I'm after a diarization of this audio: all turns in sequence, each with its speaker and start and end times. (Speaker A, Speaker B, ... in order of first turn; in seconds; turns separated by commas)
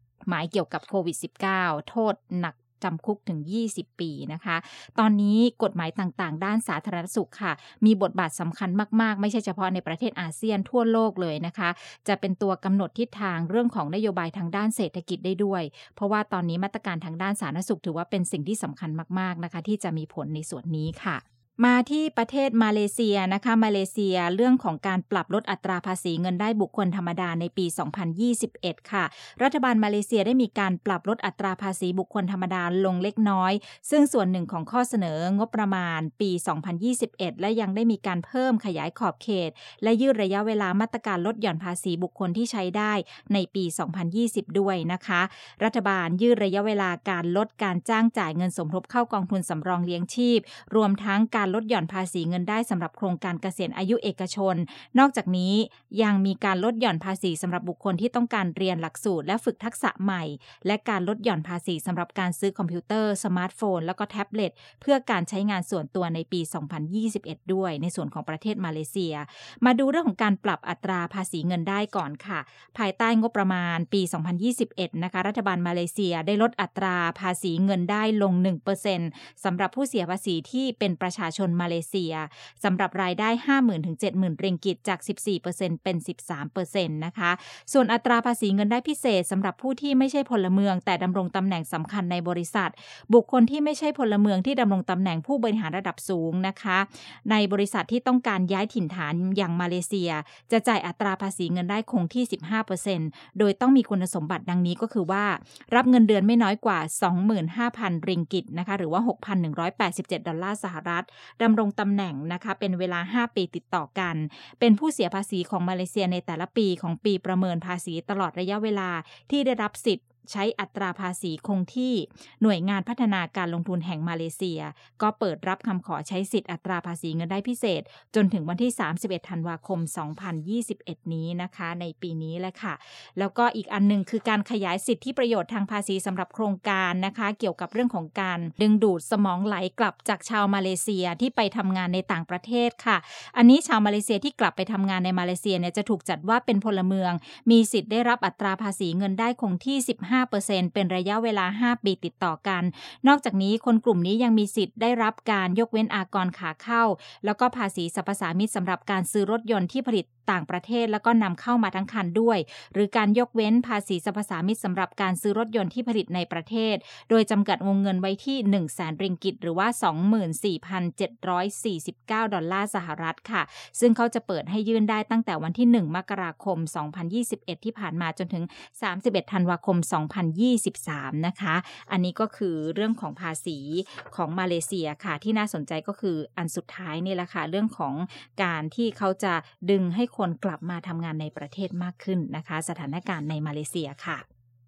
Speaker A: 0.3-194.2